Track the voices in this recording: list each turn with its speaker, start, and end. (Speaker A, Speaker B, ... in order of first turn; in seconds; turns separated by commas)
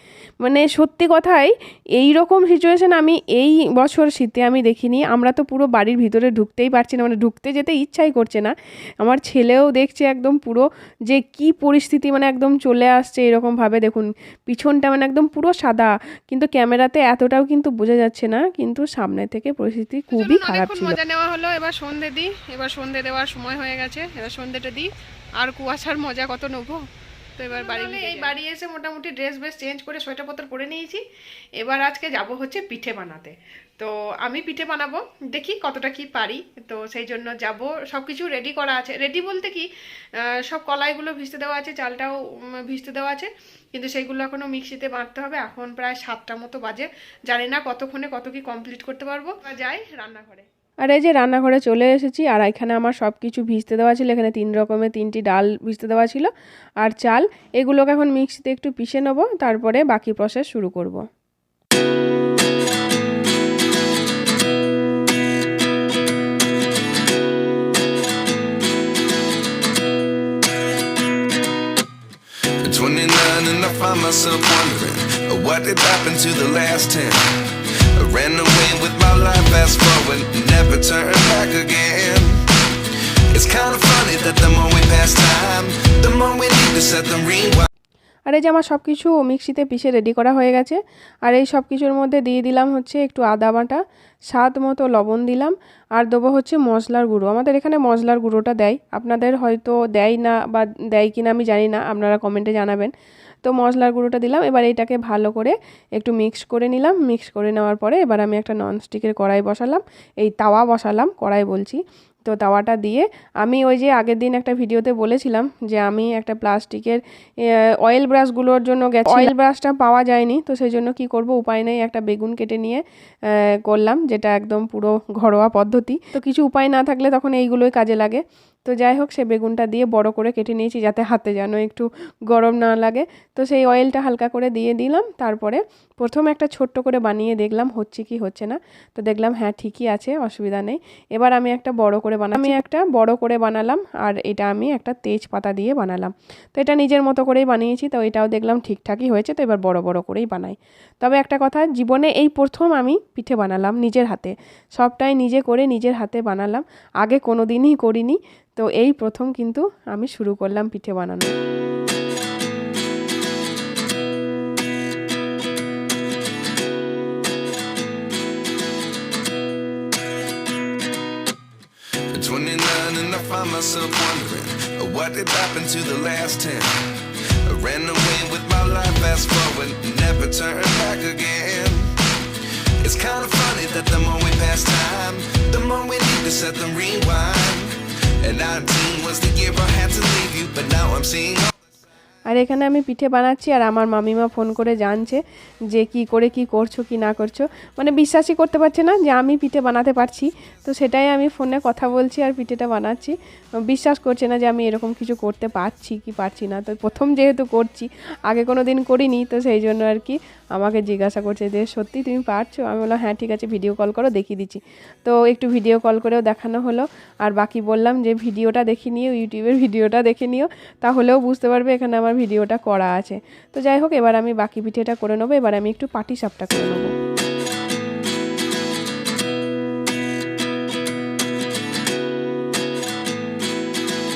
Speaker A: 0.4-21.0, Speaker B: 20.1-26.8, Speaker B: 27.4-31.0, Speaker A: 27.5-28.9, Speaker B: 31.6-39.7, Speaker A: 32.5-33.3, Speaker B: 40.3-50.5, Speaker A: 50.8-61.0, Speaker C: 72.6-87.7, Speaker A: 88.3-102.9, Speaker A: 103.4-117.0, Speaker A: 117.8-161.3, Speaker C: 172.1-191.5, Speaker A: 192.3-226.9